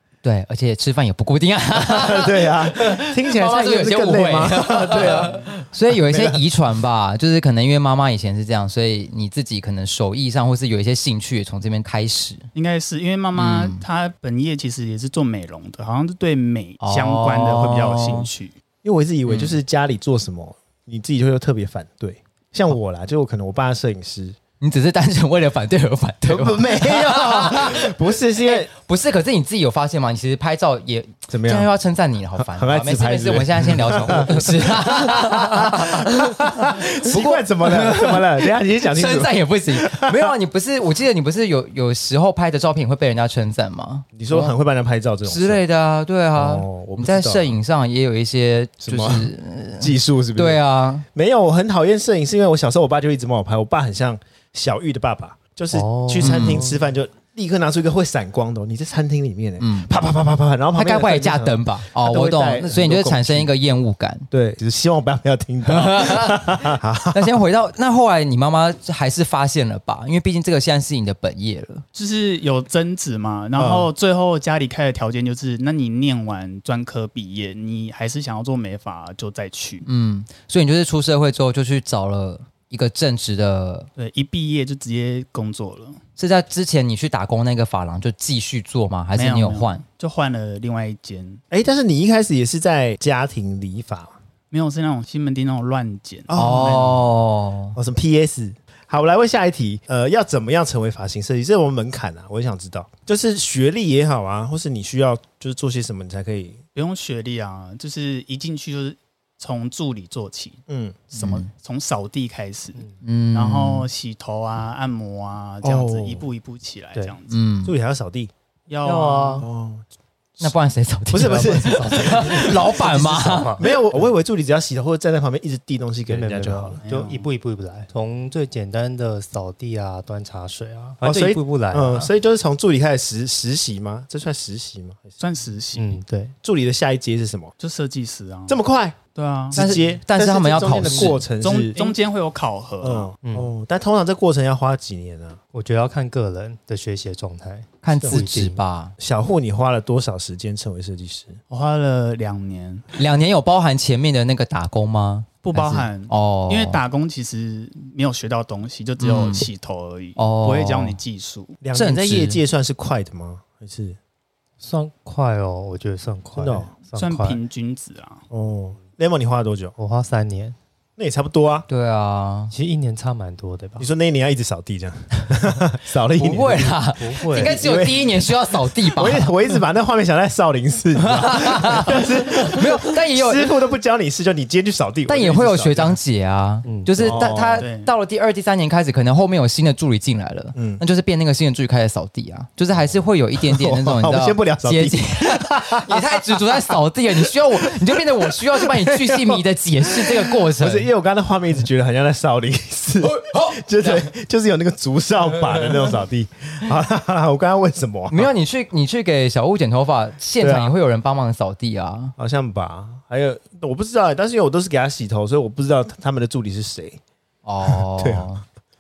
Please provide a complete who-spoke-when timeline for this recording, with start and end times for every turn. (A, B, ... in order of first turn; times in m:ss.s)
0:00.2-0:12.5 A
0:01.8-0:06.4 B
0:12.5-0:18.5 C
0:13.4-0:13.8 A
0:16.8-0:18.3 A
0:18.8-0:24.4 B
0:19.3-0:19.6 A
0:24.6-0:44.5 A
0:26.3-0:28.7 B
0:31.3-0:31.7 B
0:32.4-0:40.3 B
0:44.1-0:45.6 B
0:45.3-0:51.0 A
0:46.3-0:47.5 B
0:48.8-0:50.6 B
0:51.1-1:03.5 B
0:55.7-0:56.8 D
0:56.2-0:56.7 A
0:59.6-1:00.0 A
1:00.7-1:04.3 A
1:04.3-1:07.4 B
1:05.7-1:11.8 A
1:11.9-1:19.8 C
1:13.6-1:13.9 B
1:19.8-1:23.9 A
1:24.0-1:26.0 C
1:26.2-1:29.8 A
1:29.1-1:31.4 C
1:31.5-1:34.1 B
1:34.5-1:36.3 C
1:36.3-1:37.0 B
1:36.3-1:37.8 A
1:37.8-1:46.6 B
1:46.7-1:57.4 C
1:50.7-1:51.0 B
1:51.1-1:51.5 A
1:53.0-1:53.9 A
1:55.6-1:56.3 B
1:57.3-1:57.7 A
1:57.6-1:58.3 B
1:58.7-1:59.5 C
1:58.8-1:59.5 D
1:59.4-1:59.8 B
2:00.4-2:03.6 A
2:01.1-2:02.5 B
2:01.3-2:03.7 D
2:03.6-2:06.8 B
2:06.1-2:12.1 D
2:06.8-2:07.3 C
2:11.0-2:15.2 B
2:15.2-2:16.0 C
2:15.7-2:16.3 D
2:16.4-2:17.5 B
2:17.6-2:18.6 C
2:18.5-2:19.0 B
2:19.1-2:19.6 C
2:19.5-2:21.8 B
2:19.5-2:21.2 A
2:21.4-2:23.1 C
2:22.8-2:25.4 B
2:23.2-2:23.5 D
2:25.5-2:28.6 D
2:27.8-2:28.9 A
2:28.0-2:28.2 B
2:29.0-2:31.4 B
2:31.5-2:32.8 C
2:32.9-2:36.8 A
2:35.4-2:41.6 C
2:39.0-2:39.5 A
2:40.2-2:41.0 A
2:41.6-2:44.0 B
2:41.7-2:42.4 A
2:44.6-2:47.4 D
2:46.4-2:46.7 B
2:47.0-2:48.2 C
2:48.3-2:49.7 B
2:49.8-2:50.6 D
2:51.0-2:51.6 B
2:51.7-2:52.5 A
2:52.5-2:53.9 D
2:53.8-2:56.8 B
2:56.2-2:59.6 A
2:56.8-2:57.7 D
2:57.4-3:06.0 B
3:01.0-3:03.5 A
3:05.1-3:20.9 A
3:06.6-3:07.1 D
3:07.0-3:07.6 B
3:07.6-3:07.9 C
3:10.5-3:10.8 B
3:13.4-3:19.4 B
3:19.9-3:28.3 B
3:23.0-3:24.1 A
3:25.5-3:25.9 A
3:28.1-3:32.1 A
3:30.4-3:30.7 B
3:32.2-3:37.0 B
3:37.4-3:38.4 A
3:37.6-3:38.3 B